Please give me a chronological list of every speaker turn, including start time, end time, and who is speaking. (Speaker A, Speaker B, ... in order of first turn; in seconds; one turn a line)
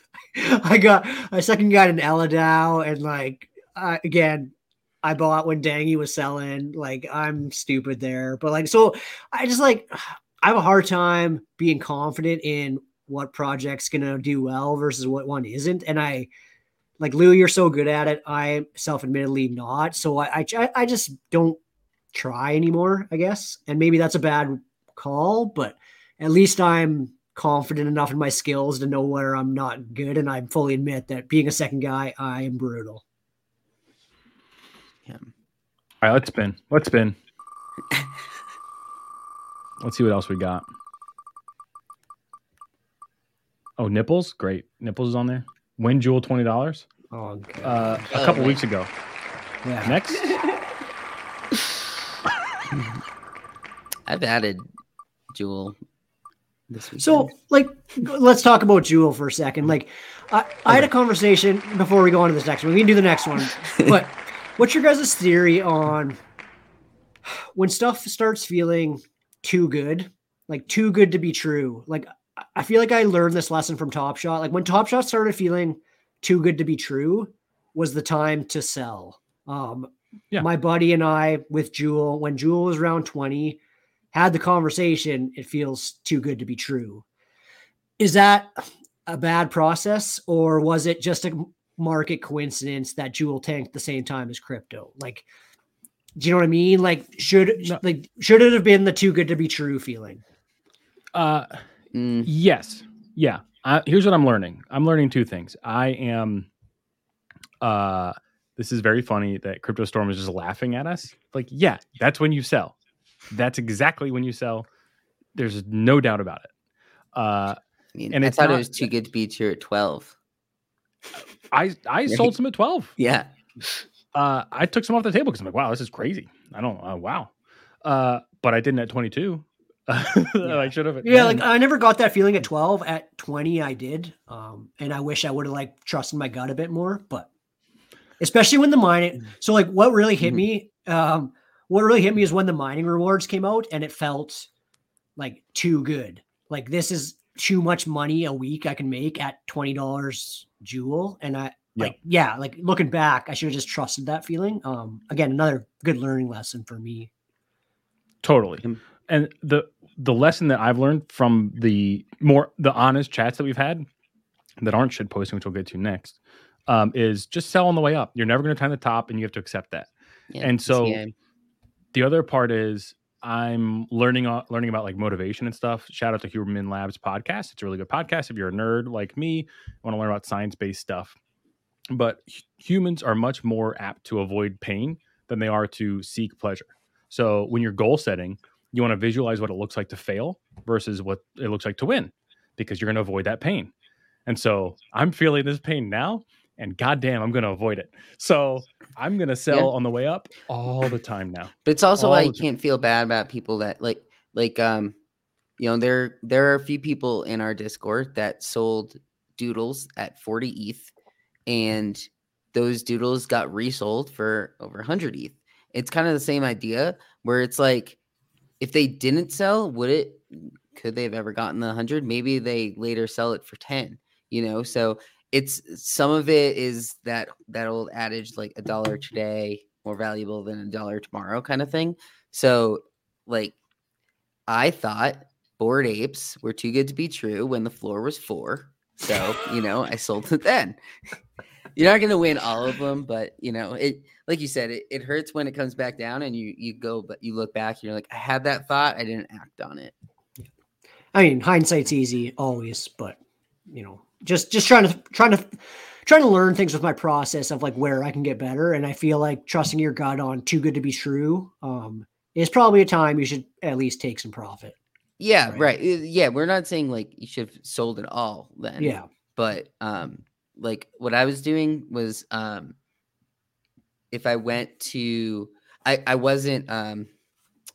Speaker A: 0.3-16.3
Speaker A: 17.0-21.6
Speaker A: 22.1-33.0
Speaker B: 36.0-37.2
Speaker B: 39.8-40.6
Speaker B: 43.8-46.9
Speaker A: 47.1-48.0
Speaker B: 47.6-48.9
Speaker C: 48.1-48.6
Speaker A: 49.6-50.0
Speaker B: 49.8-50.4
Speaker C: 54.1-54.7
Speaker C: 55.3-55.8
Speaker C: 56.7-57.3
Speaker A: 57.0-66.2
Speaker A: 67.3-83.6
Speaker A: 84.1-87.0
Speaker A: 88.0-95.3
Speaker A: 96.2-100.2
Speaker B: 101.1-101.6
Speaker C: 101.9-102.3
Speaker B: 102.2-106.5
Speaker B: 107.6-112.8
Speaker B: 113.3-114.7
Speaker B: 115.3-116.5
Speaker B: 117.1-117.6
Speaker C: 118.0-120.2
Speaker B: 118.1-118.9
Speaker B: 121.5-122.9
Speaker C: 123.0-123.3
Speaker B: 124.1-127.3
Speaker B: 127.8-131.4
Speaker A: 130.4-137.3
Speaker A: 138.2-144.5
Speaker A: 145.2-157.1
Speaker B: 158.2-163.9
Speaker B: 164.6-169.9
Speaker C: 170.3-171.1
Speaker B: 170.4-171.0
Speaker B: 171.9-181.2
Speaker B: 181.9-193.7
Speaker B: 194.3-202.4
Speaker C: 201.7-204.9
Speaker C: 205.6-210.9
Speaker C: 211.5-218.0
Speaker C: 218.6-233.6
Speaker C: 234.5-240.8
Speaker C: 241.8-249.9
Speaker A: 251.1-253.2
Speaker A: 253.7-264.8
Speaker C: 265.2-272.8
Speaker A: 268.8-269.1
Speaker C: 274.1-277.1